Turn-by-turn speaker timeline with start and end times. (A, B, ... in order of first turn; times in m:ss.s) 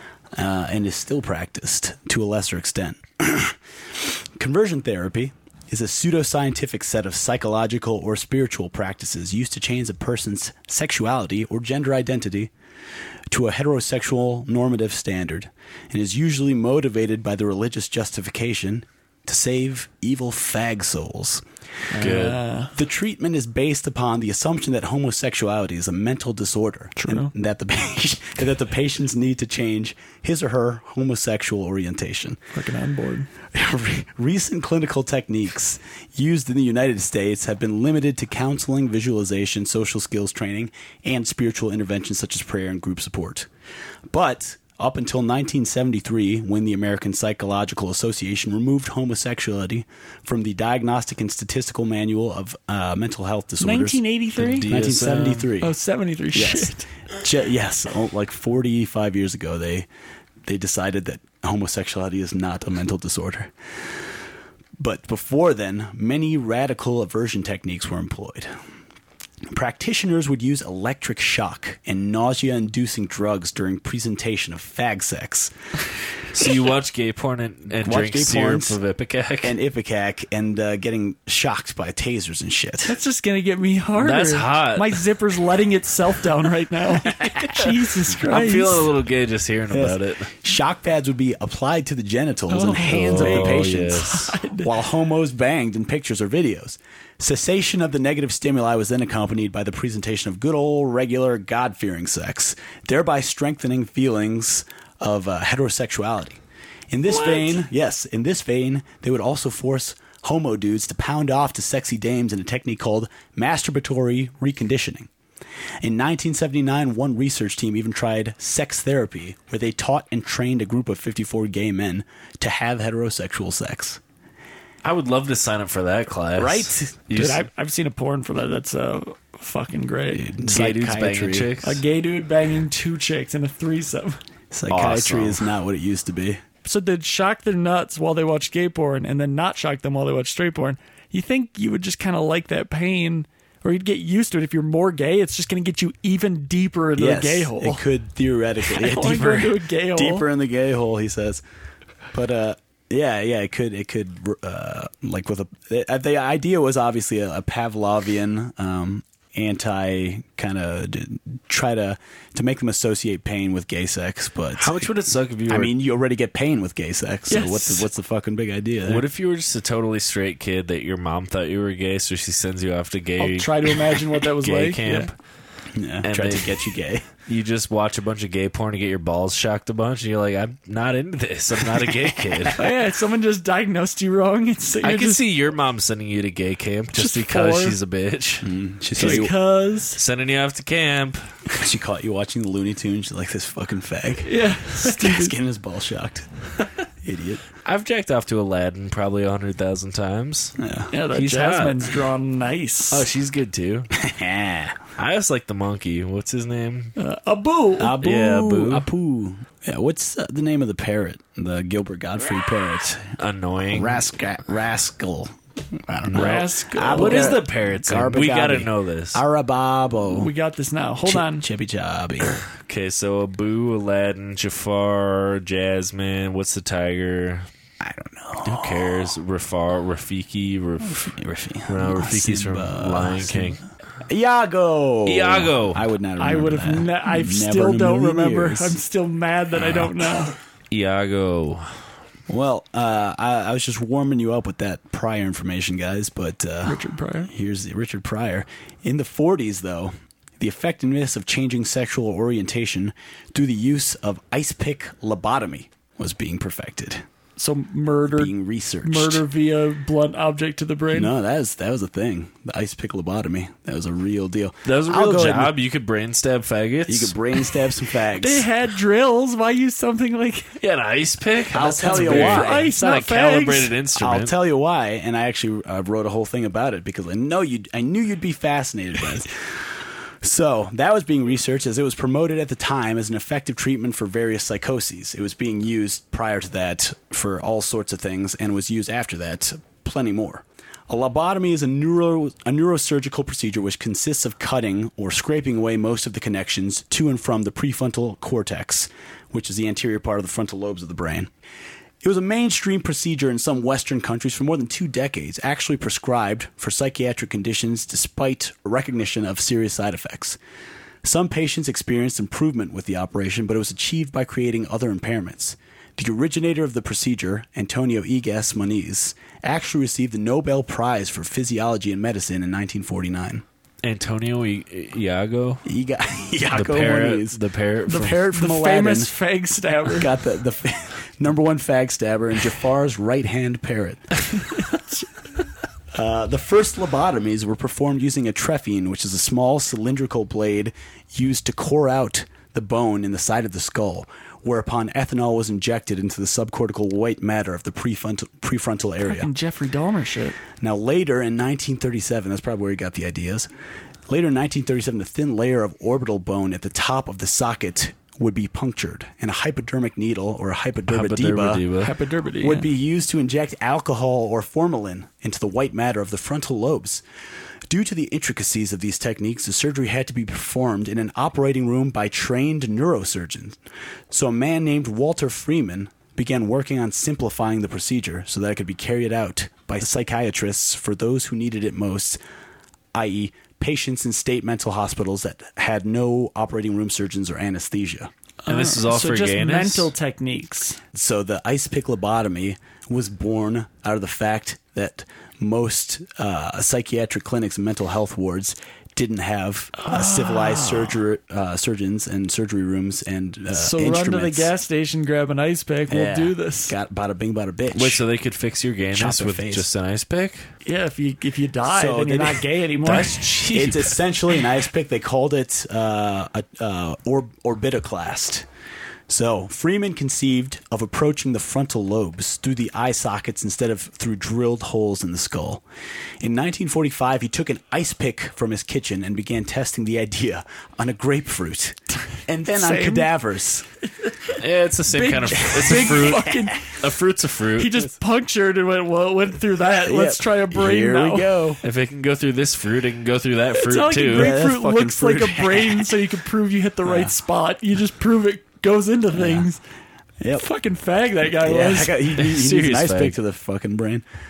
0:00.3-0:12.5 A
0:13.3-0:21.4 A
0:21.9-0:22.7 B
0:22.0-0:22.4 C
0:22.7-0:32.4 A
0:27.0-0:27.3 B
0:32.5-0:33.3 B
0:33.5-0:43.5 A
0:44.1-0:54.0 A
0:53.6-0:54.7 B
0:54.4-0:55.5 C
0:54.6-0:55.7 A
0:55.6-0:56.9 B
0:56.3-0:59.9 A
1:00.4-1:03.5 A
1:04.8-1:08.5 A
1:09.5-1:15.5 A
1:16.3-1:19.6 C
1:17.8-1:18.8 A
1:19.4-1:23.0 A
1:22.8-1:28.9 B
1:24.0-1:25.0 C
1:27.0-1:27.6 A
1:28.2-1:30.3 C
1:29.7-1:55.1 A
1:32.5-1:34.7 B
1:32.8-1:34.3 C
1:47.1-1:47.7 B
1:55.8-2:04.0 A
2:04.8-2:07.5 C
2:06.4-2:07.0 A
2:07.1-2:10.2 B
2:10.1-2:11.5 A
2:10.4-2:11.8 C
2:11.6-2:14.2 B
2:14.5-2:16.4 A
2:14.7-2:15.4 C
2:16.6-2:27.8 B
2:27.0-2:31.4 A
2:28.6-2:30.3 B
2:32.1-2:44.9 A
2:44.6-2:45.7 C
2:45.5-2:49.0 A
2:47.3-2:47.8 B
2:48.8-2:55.1 C
2:53.2-2:55.1 B
2:55.7-2:57.0 A
2:56.0-2:56.6 C
2:57.3-3:02.6 C
3:01.6-3:02.5 A
3:02.6-3:05.2 B
3:04.8-3:09.3 C
3:06.9-3:07.8 B
3:08.4-3:09.3 A
3:09.0-3:10.0 B
3:09.9-3:11.3 C
3:11.5-3:17.4 A
3:14.2-3:15.3 B
3:17.6-3:20.6 C
3:20.6-3:20.9 A
3:20.9-3:23.1 B
3:21.1-3:21.9 C
3:22.9-3:23.9 C
3:23.9-3:24.8 A
3:25.0-3:26.9 C
3:27.0-3:28.0 B
3:27.8-3:33.2 A
3:28.0-3:28.9 C
3:33.2-3:34.0 C
3:33.7-3:40.3 A
3:36.1-3:39.2 C
3:36.1-3:37.4 B
3:40.1-3:41.4 B
3:41.0-3:42.4 A
3:42.3-3:47.4 C
3:47.8-3:49.2 A
3:48.4-3:51.1 C
3:50.8-3:58.8 A
3:51.7-3:53.6 C
3:55.0-3:55.8 C
3:56.2-4:00.4 B
3:59.6-3:59.9 A
4:00.7-4:01.7 C
4:02.3-4:17.0 A
4:06.6-4:07.3 B
4:17.4-4:21.1 B
4:18.1-4:19.2 A
4:20.9-4:25.6 A
4:24.6-4:27.1 C
4:26.9-4:28.4 A
4:28.1-4:30.5 B
4:30.6-4:34.3 C
4:31.5-4:32.7 A
4:31.8-4:33.7 B
4:34.0-5:01.3 A
5:02.0-5:10.4 A
5:11.0-5:23.4 A
5:23.8-5:25.6 C
5:25.6-5:29.1 A
5:26.5-5:28.2 C
5:27.9-5:30.1 B
5:29.9-5:34.1 A
5:34.7-5:35.0 B
5:35.9-5:49.3 A
5:49.0-5:50.4 B
5:50.6-5:53.5 A
5:54.1-6:01.7 A
6:00.9-6:01.9 C
6:01.8-6:02.7 B
6:02.4-6:07.0 A
6:07.7-6:13.6 A
6:14.1-6:22.2 A
6:22.9-6:28.1 A
6:28.4-6:30.8 B
6:28.5-6:29.9 C
6:30.9-6:44.5 A
6:39.8-6:40.9 B
6:43.5-6:46.7 B
6:45.9-6:48.0 A
6:47.7-6:50.5 C
6:48.9-6:49.7 A
6:50.6-6:53.3 B
6:51.7-6:52.5 A
6:52.8-6:54.0 C
6:53.5-6:58.4 A
6:59.1-7:05.6 A
7:06.2-7:13.7 A
7:12.5-7:13.1 B
7:14.0-7:14.3 B
7:14.4-7:17.8 C
7:14.9-7:16.8 B
7:15.7-7:16.1 A
7:17.6-7:21.6 B
7:19.8-7:21.6 A
7:21.6-7:24.3 C
7:23.6-7:29.6 B
7:24.1-7:25.9 A
7:26.8-7:27.1 A
7:29.1-7:29.5 A
7:30.2-7:30.5 A
7:30.4-7:32.0 B
7:31.4-7:34.0 A
7:32.2-7:33.2 C